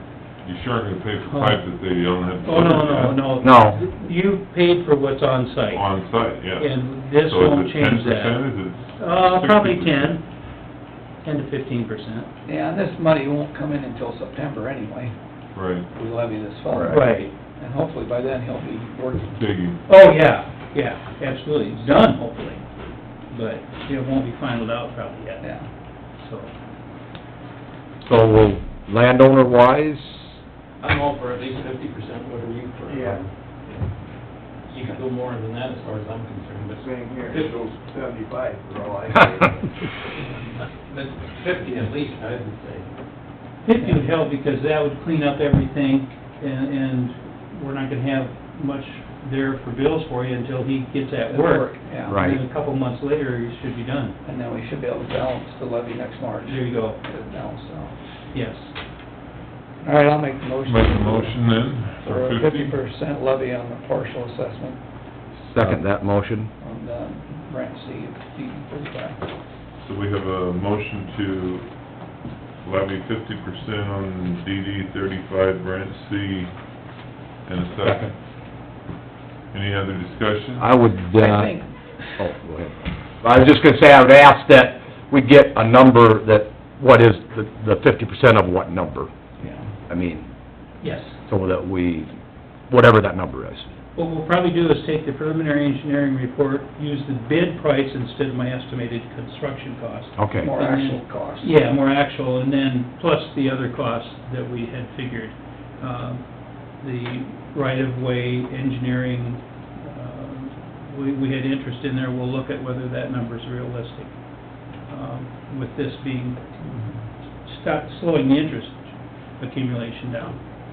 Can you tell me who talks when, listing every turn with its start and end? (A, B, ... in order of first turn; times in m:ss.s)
0:00.4-0:03.3 A
0:01.3-0:01.6 B
0:02.4-0:05.8 B
0:03.4-0:03.8 C
0:05.7-0:10.1 A
0:06.6-0:08.4 B
0:09.0-0:10.2 B
0:11.2-0:12.3 B
0:12.4-0:15.1 D
0:15.5-0:15.9 A
0:15.9-0:19.4 D
0:16.7-0:17.0 C
0:16.9-0:17.3 B
0:19.4-0:19.8 A
0:19.9-0:22.6 B
0:23.3-0:25.5 B
0:25.4-0:25.7 D
0:26.2-0:26.5 B
0:28.0-0:30.4 C
0:30.8-0:33.9 E
0:32.9-0:33.2 F
0:34.7-0:37.6 E
0:36.8-0:39.6 F
0:40.9-0:42.9 E
0:43.6-0:54.2 B
0:43.8-0:44.1 D
0:51.3-0:52.3 D
0:52.1-0:52.4 C
0:54.2-0:58.0 D
0:56.4-0:57.0 B
0:58.3-0:58.7 B
0:59.8-1:01.5 D
1:00.6-1:02.8 A
1:02.0-1:04.8 D
1:05.4-1:06.5 C
1:06.6-1:09.3 D
1:09.8-1:11.7 A
1:12.6-1:16.5 A
1:17.4-1:18.1 A
1:17.8-1:18.1 C
1:19.5-1:20.7 A
1:20.6-1:21.6 C
1:21.2-1:22.2 D
1:22.2-1:29.1 C
1:29.4-1:29.7 D
1:29.9-1:30.3 C
1:30.8-1:31.2 B
1:31.2-1:32.1 C
1:32.7-1:33.6 C
1:34.0-1:54.1 B
1:40.2-1:40.5 C
1:40.4-1:41.5 D
1:54.9-1:56.6 B
1:57.4-2:00.4 B